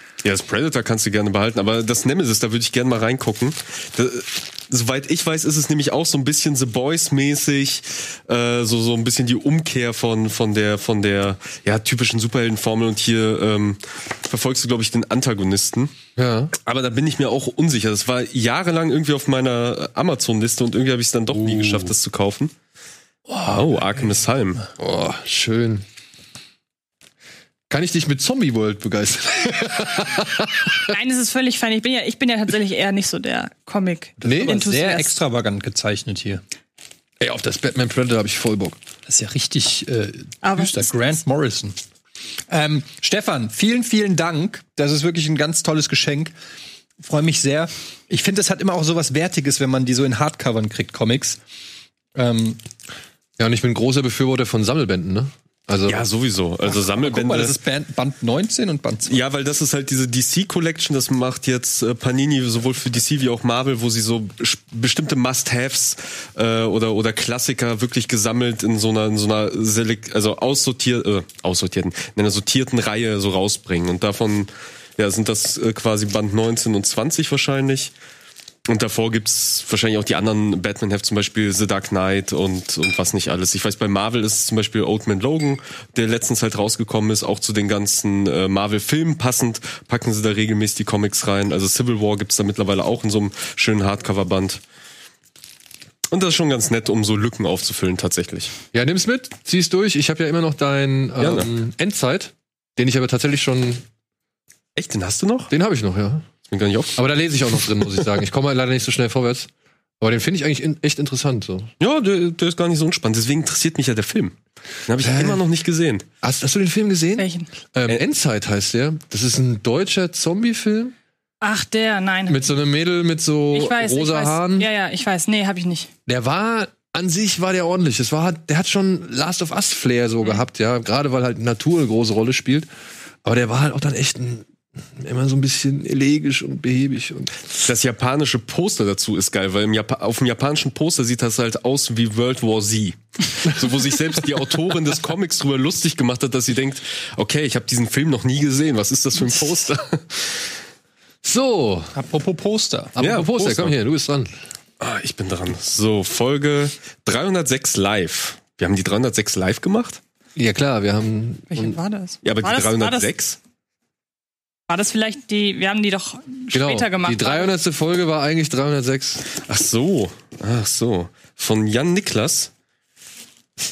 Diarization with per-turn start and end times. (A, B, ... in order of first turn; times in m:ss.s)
0:00.2-0:15.9 A
0:16.2-0:16.5 B
0:16.6-0:22.5 A
0:21.3-0:21.9 B
0:23.3-0:24.6 A
0:24.8-0:25.8 B
0:27.7-0:30.9 B
0:30.9-0:35.2 C
0:34.2-0:36.4 D
0:34.2-0:34.6 B
0:37.2-0:38.8 B
0:39.1-0:41.8 D
0:40.4-0:40.9 C
0:42.5-0:46.3 D
0:47.0-0:51.4 D
0:52.2-0:52.6 D
0:53.4-0:56.0 B
0:55.9-0:57.6 A
0:56.7-0:59.2 D
0:59.1-1:17.9 A
1:18.7-1:34.6 A
1:36.1-1:38.5 A
1:38.7-1:43.8 B
1:41.2-1:41.5 A
1:44.8-1:45.5 A
1:45.5-1:46.3 B
1:46.5-1:47.0 A
1:47.0-1:49.5 B
1:50.0-1:51.7 B
1:51.8-1:54.3 A
1:54.9-1:56.1 A
1:55.0-1:55.4 B
1:56.2-2:00.9 B
1:57.2-1:57.5 C
2:01.4-2:02.4 C
2:02.3-2:04.7 B
2:03.5-2:05.9 C
2:06.1-2:12.7 B
2:13.2-2:17.3 B
2:17.6-2:30.4 A
2:31.2-2:31.9 B
2:31.9-2:32.9 D
2:33.0-2:34.3 B
2:33.0-2:33.8 A
2:34.8-2:40.0 A
2:40.4-2:41.8 B
2:41.5-2:43.1 C
2:42.2-2:43.4 A
2:44.7-2:47.5 C
2:46.5-2:49.2 B
2:49.4-2:52.5 A